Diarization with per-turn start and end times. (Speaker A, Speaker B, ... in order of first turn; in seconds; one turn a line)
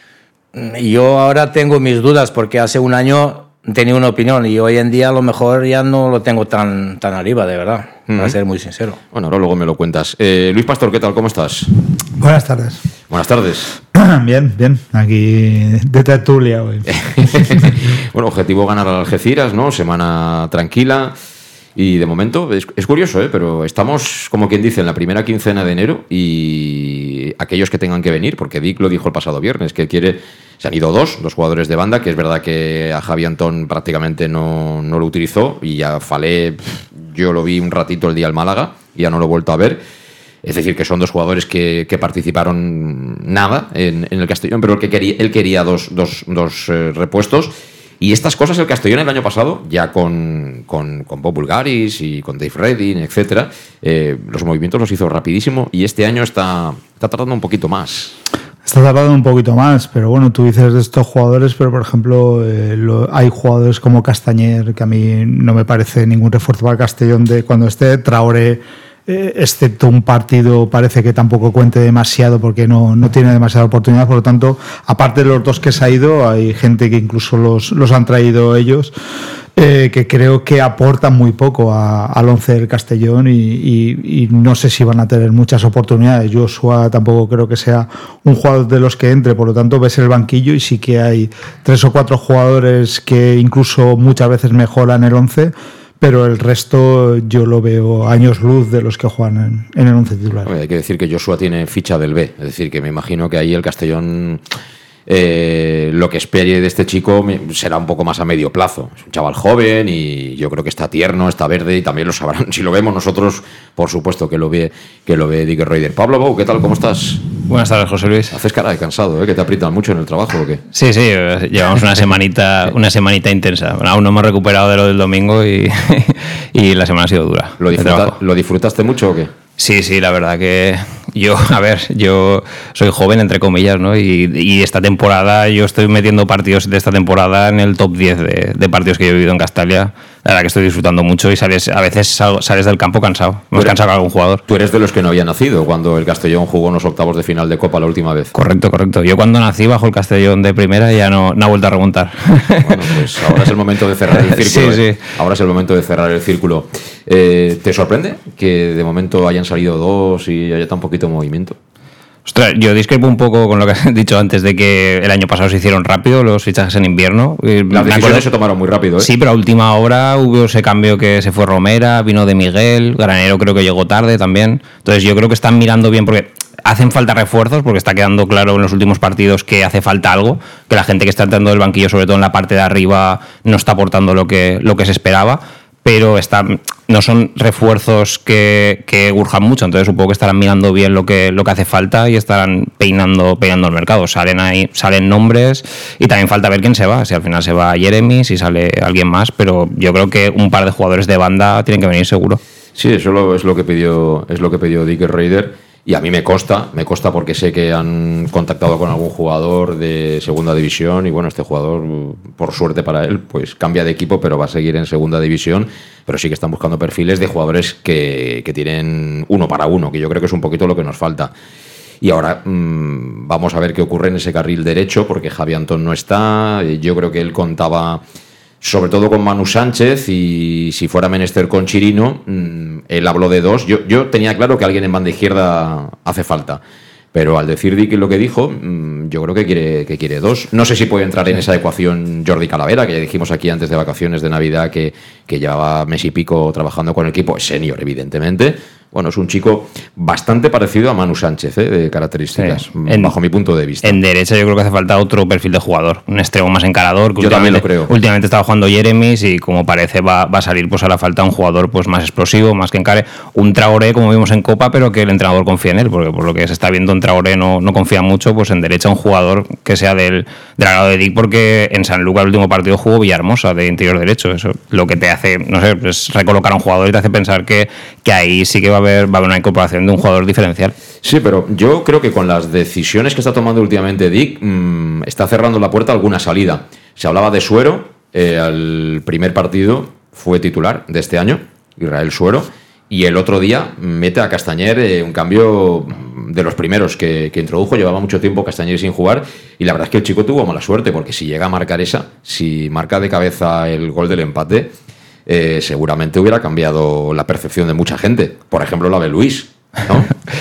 Speaker A: 0.5-9.0
Speaker B: 8.1-8.3
Speaker B: 9.1-11.7
Speaker C: 12.2-12.8
Speaker B: 13.1-13.7
Speaker C: 13.9-17.7
Speaker B: 16.9-21.1
Speaker B: 21.8-39.8
Speaker B: 40.4-58.2
Speaker C: 58.6-78.9
Speaker C: 79.5-100.5
Speaker B: 100.4-104.4
Speaker B: 105.1-117.2
Speaker D: 117.5-118.3
Speaker B: 118.3-120.6
Speaker D: 120.7-128.1
Speaker B: 127.6-129.3
Speaker D: 129.6-144.4
Speaker B: 144.5-148.3
Speaker D: 148.3-153.4
Speaker B: 152.6-161.6
Speaker D: 154.1-155.0
Speaker D: 162.3-168.2
Speaker B: 167.7-169.1
Speaker D: 169.0-202.4
Speaker B: 202.8-221.3
Speaker B: 222.0-228.0
Speaker B: 228.6-236.6
Speaker B: 237.1-254.0
Speaker D: 252.4-253.1
Speaker D: 253.8-280.7
Speaker B: 257.2-257.9
Speaker B: 281.0-304.7
Speaker B: 305.3-310.1